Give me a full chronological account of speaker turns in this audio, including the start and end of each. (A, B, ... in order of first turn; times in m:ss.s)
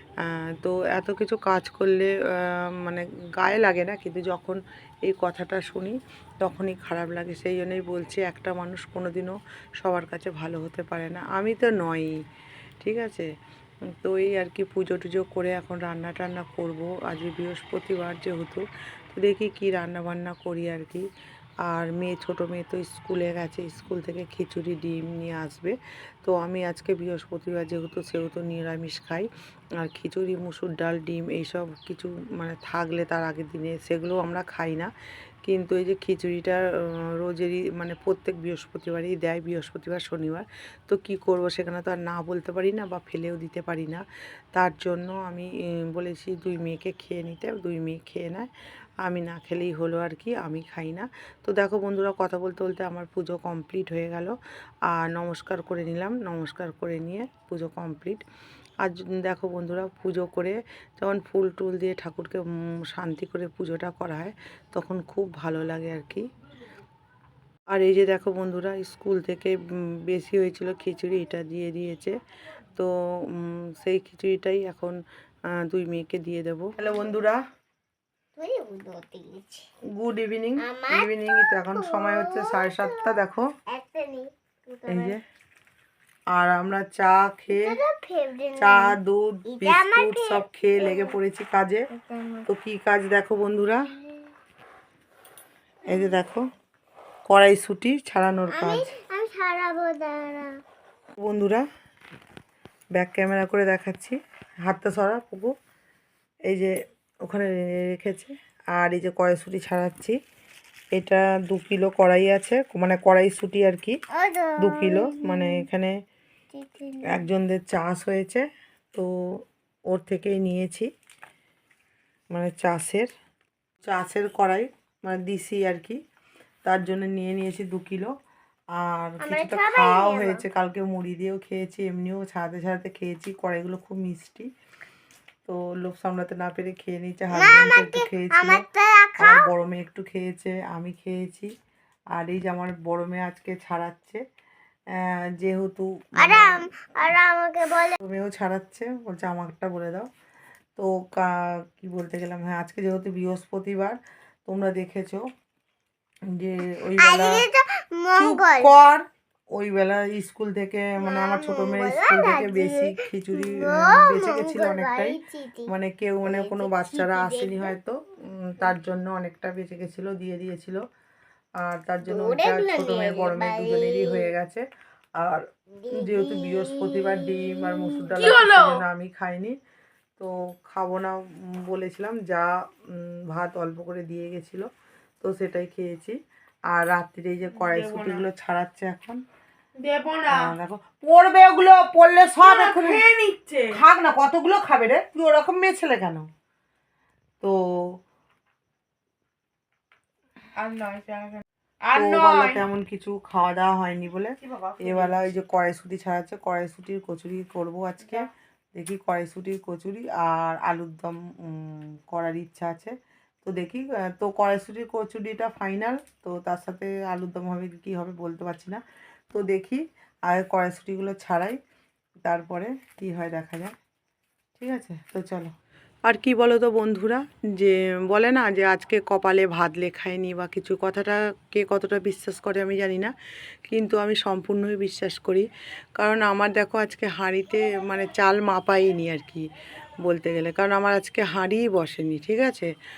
0:00.2-0:12.1 A
0:12.8-0:13.3 A
0:14.0-0:21.0 A
0:21.7-0:29.3 A
0:29.8-0:34.9 A
0:35.4-0:44.0 A
0:44.5-0:48.5 A
0:49.0-0:54.3 A
0:54.9-0:58.2 A
0:58.8-1:06.2 A
1:07.7-1:12.2 A
1:12.7-1:15.0 A
1:15.6-1:17.4 A
1:18.4-1:19.6 B
1:19.9-1:23.5 A
1:20.6-1:23.1 B
1:23.7-1:25.1 B
1:24.9-1:25.2 A
1:26.3-1:27.8 A
1:27.5-1:28.9 B
1:28.6-1:31.9 A
1:29.5-1:31.2 B
1:31.9-1:32.5 B
1:32.5-1:33.9 A
1:35.9-1:36.4 A
1:37.3-1:38.9 A
1:38.5-1:40.6 B
1:41.2-1:41.6 A
1:43.0-1:45.5 A
1:46.5-1:46.7 A
1:47.2-1:50.2 A
1:50.9-1:54.0 A
1:54.1-1:55.6 B
1:54.6-1:55.9 A
1:56.5-1:57.2 B
1:57.1-1:59.1 A
1:59.9-2:00.9 A
2:02.3-2:03.1 A
2:03.9-2:06.0 A
2:06.6-2:08.1 A
2:08.8-2:14.5 A
2:09.2-2:10.4 B
2:15.4-2:18.6 A
2:17.3-2:19.5 B
2:19.2-2:21.5 A
2:22.1-2:24.2 A
2:25.0-2:26.6 A
2:26.2-2:28.0 B
2:28.0-2:30.1 A
2:30.8-2:35.2 A
2:36.3-2:37.4 A
2:37.0-2:38.7 B
2:38.1-2:50.8 A
2:41.0-2:45.7 B
2:46.2-2:47.8 B
2:51.6-2:54.6 A
2:52.0-2:54.3 B
2:55.2-2:59.6 A
2:55.8-2:58.2 B
2:58.2-2:58.8 C
3:00.2-3:04.7 A
3:05.2-3:06.2 A
3:06.7-3:09.2 A
3:07.5-3:08.2 C
3:09.8-3:10.5 C
3:10.3-3:13.0 A
3:12.4-3:13.8 C
3:13.7-3:16.3 A
3:17.4-3:18.0 A
3:20.6-3:22.6 C
3:21.9-3:41.6 A
3:24.4-3:25.3 C
3:42.2-3:43.7 A
3:44.6-3:45.5 A
3:46.0-3:53.1 A
3:53.6-3:59.5 A
4:00.0-4:02.7 A